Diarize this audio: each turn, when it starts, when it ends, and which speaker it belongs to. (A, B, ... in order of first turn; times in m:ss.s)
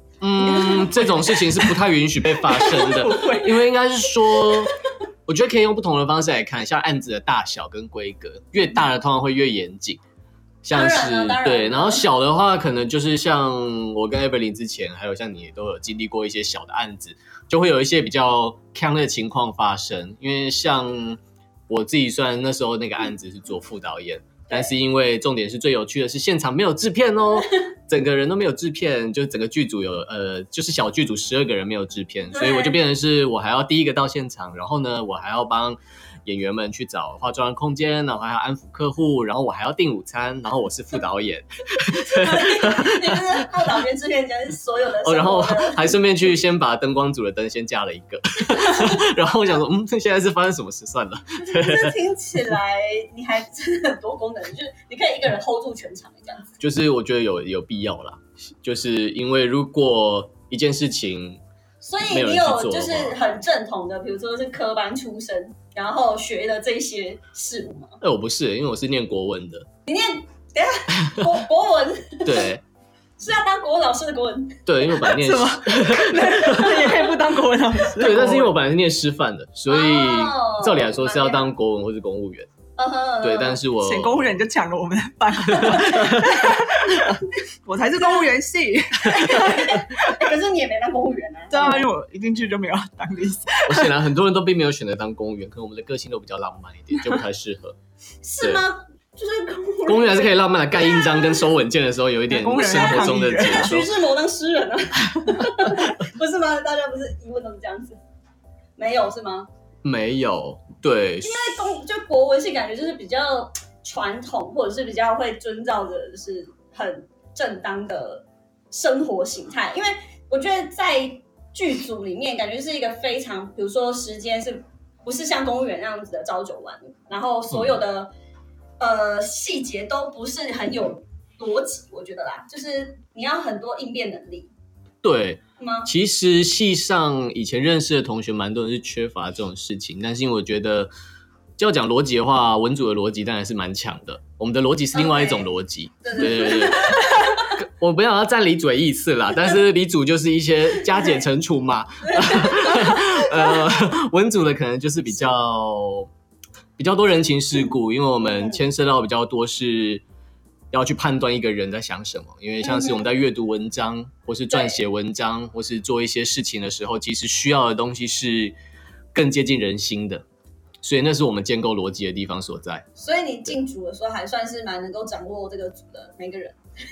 0:00.2-0:04.7 A
0:00.6-0:01.8 B
0:02.4-0:03.6 B
0:05.2-0:10.0 A
0:10.6-0:43.2 A
0:10.7-0:12.0 C
0:32.3-0:32.8 C
0:41.9-0:46.0 C
0:45.0-0:52.0 A
0:51.4-0:56.4 C
0:56.6-1:01.4 A
1:01.8-1:08.0 C
1:02.1-1:03.2 A
1:08.0-1:09.7 A
1:09.8-1:12.3 C
1:12.2-1:12.6 A
1:13.2-1:14.6 C
1:14.6-1:17.0 A
1:15.0-1:18.5 B
1:17.9-1:22.5 A
1:19.7-1:21.5 C
1:22.8-1:23.6 C
1:23.2-1:24.4 A
1:23.7-1:30.0 B
1:25.6-1:26.4 A
1:29.0-1:31.9 C
1:31.5-1:33.9 B
1:33.6-1:37.8 A
1:38.2-1:41.5 C
1:38.4-1:38.6 A
1:39.8-1:44.0 A
1:42.3-1:43.8 B
1:42.6-1:48.0 C
1:48.8-1:49.5 C
1:49.8-1:51.3 A
1:51.2-2:08.1 C
2:07.5-2:07.8 A
2:08.8-2:14.5 C
2:15.0-2:20.9 A
2:15.6-2:15.9 C
2:21.6-2:36.1 A
2:24.9-2:25.5 C
2:26.0-2:27.5 C
2:32.0-2:33.6 C
2:36.8-2:40.0 A
2:38.2-2:38.6 C
2:40.7-2:48.6 A
2:42.6-2:43.0 C
2:44.5-2:44.8 C
2:49.1-2:50.2 A
2:50.8-2:52.8 A
2:53.0-2:56.6 C